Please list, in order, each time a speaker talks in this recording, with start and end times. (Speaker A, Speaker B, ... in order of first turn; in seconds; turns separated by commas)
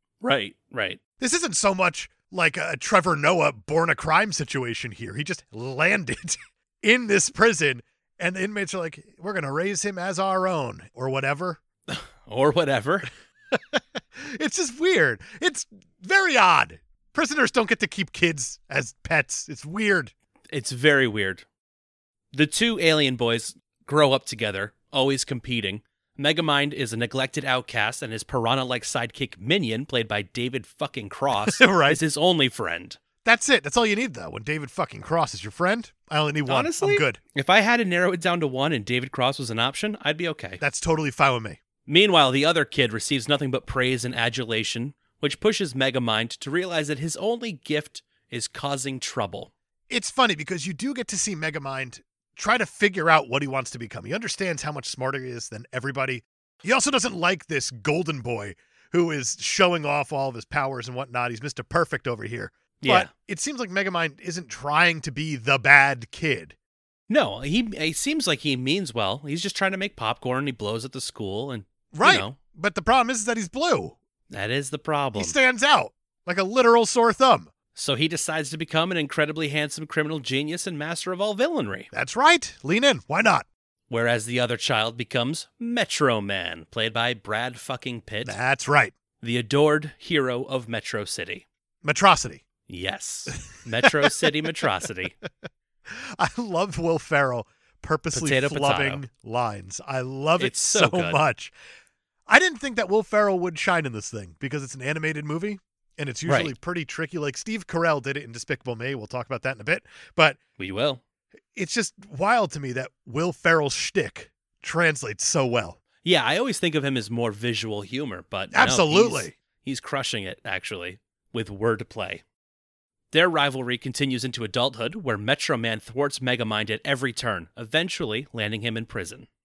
Speaker A: 0.2-1.0, Speaker B: 1.2-11.6, Speaker A: 11.9-13.1, Speaker B: 13.5-20.1, Speaker A: 20.5-21.4, Speaker A: 22.3-33.0, Speaker B: 31.4-32.0, Speaker B: 33.2-37.2, Speaker A: 36.5-40.6, Speaker B: 40.6-41.6, Speaker A: 41.9-49.5, Speaker B: 49.9-66.5, Speaker A: 62.8-63.1, Speaker A: 67.1-72.4, Speaker B: 71.9-74.0, Speaker A: 74.3-75.3, Speaker B: 75.1-77.5, Speaker A: 77.7-81.9, Speaker B: 81.9-83.5, Speaker A: 83.9-88.3, Speaker B: 88.2-88.9, Speaker A: 89.2-91.4, Speaker B: 91.8-92.4, Speaker A: 92.7-95.2, Speaker B: 93.3-94.1, Speaker B: 95.9-101.5, Speaker A: 98.1-99.0, Speaker A: 100.4-101.2, Speaker B: 102.3-110.4, Speaker A: 106.2-106.5, Speaker A: 110.6-111.0, Speaker B: 111.5-115.8, Speaker A: 116.0-122.2, Speaker B: 118.5-119.3, Speaker A: 123.1-129.3